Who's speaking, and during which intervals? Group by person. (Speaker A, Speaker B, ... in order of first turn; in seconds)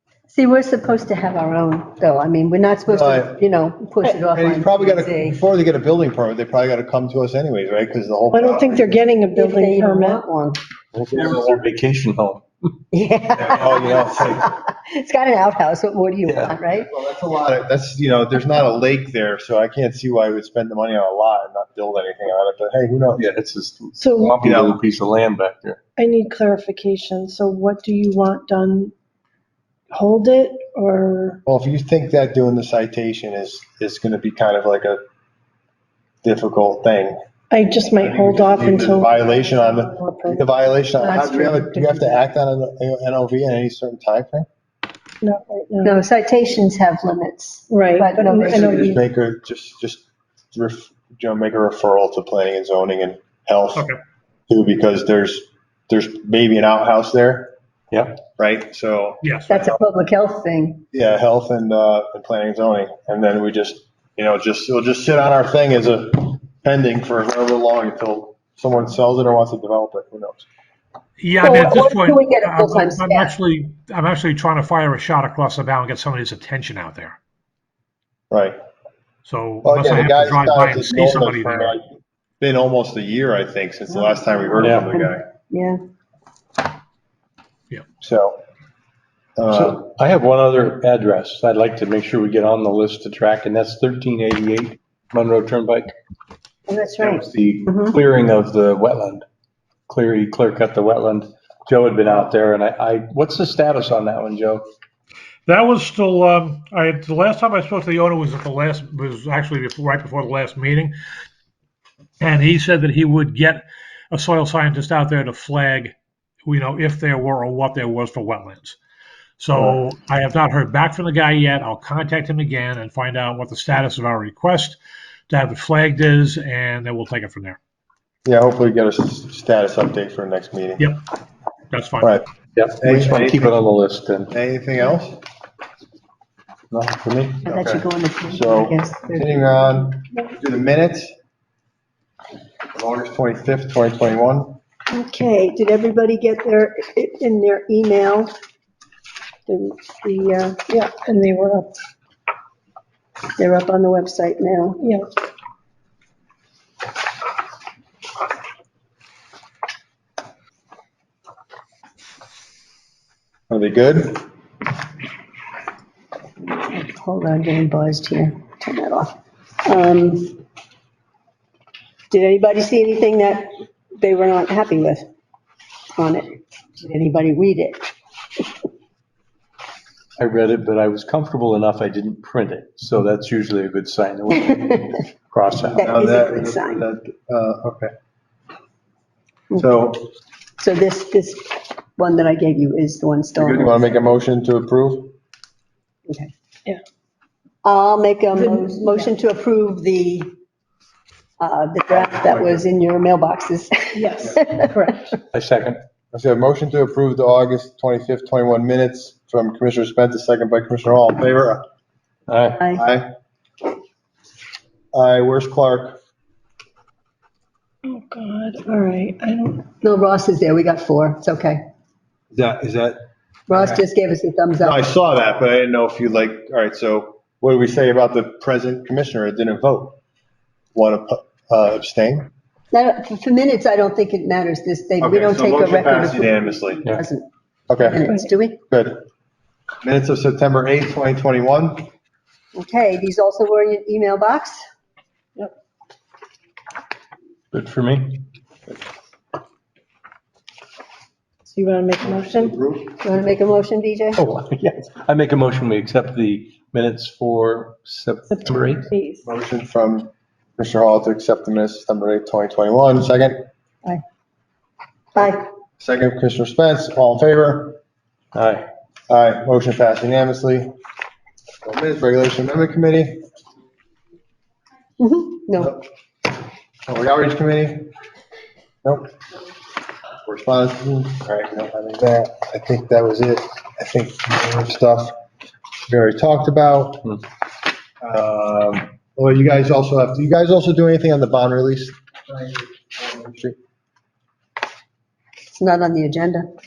Speaker A: 0.3-5.4, 9.3-10.6, 12.9-16.9, 41.0-42.2, 45.8-49.0, 59.5-60.8, 71.4-73.3, 83.9-85.8, 137.4-139.5, 144.9-148.3, 149.5-150.6, 153.4-154.8, 166.6-170.4, 172.1-175.1, 175.9-177.8, 185.7-186.8, 190.6-193.8, 197.6-200.3, 201.4-204.8, 212.6-212.8, 219.8-221.6, 223.5-224.8, 232.7-237.2, 237.8-238.6, 242.5-244.6, 252.9-254.2, 265.1-265.4, 275.0-275.7, 295.6-296.5
Speaker B: 2.9-3.4, 4.3-9.0, 11.1-11.6, 13.4-14.5, 16.9-23.2, 24.4-24.8, 31.4-35.0, 36.2-37.2, 38.0-44.5, 48.5-53.9, 54.5-57.5, 58.4-59.3, 60.9-70.5, 78.3-78.6, 79.6-81.8, 82.4-85.2, 88.0-88.4, 89.4-89.9, 128.2-130.8, 132.8-133.6, 134.3-135.2, 138.3-141.1, 142.7-144.6, 163.5-164.2, 185.7-187.9, 189.5-190.0, 193.3-195.1, 202.0-202.6, 206.1-211.6, 212.7-213.1, 214.9-216.0, 222.3-223.8, 224.6-230.0, 230.7-232.3, 235.0-236.8, 237.7-238.0, 238.7-239.0, 239.8-241.9, 252.0-252.9, 259.2-263.4, 265.8-267.8, 269.1-270.7, 271.6-273.2, 276.9-277.9, 278.8-279.1, 280.2-285.1, 285.9-287.1, 288.0-293.6
Speaker C: 8.3-10.2, 24.0-24.4, 26.0-28.9, 29.9-31.4, 37.5-39.1, 39.8-40.4, 45.2-46.0, 47.7-48.9, 150.6-151.7, 154.8-155.1, 198.3-199.1, 203.9-205.1, 217.8-219.7, 251.4-252.5, 258.3-259.2
Speaker D: 10.9-12.4, 16.2-16.5, 23.1-25.8, 57.9-58.2, 84.6-84.9, 89.5-95.9, 97.0-99.2, 99.9-104.7, 132.6-134.3, 136.7-137.8, 180.2-185.8, 205.3-205.8, 212.3-212.6, 247.5-248.3, 254.2-258.9, 268.3-268.6
Speaker E: 59.2-59.7, 71.2-77.2, 79.2-81.8, 105.5-110.9, 112.2-115.9, 116.5-118.8, 119.4-127.6, 131.7-132.2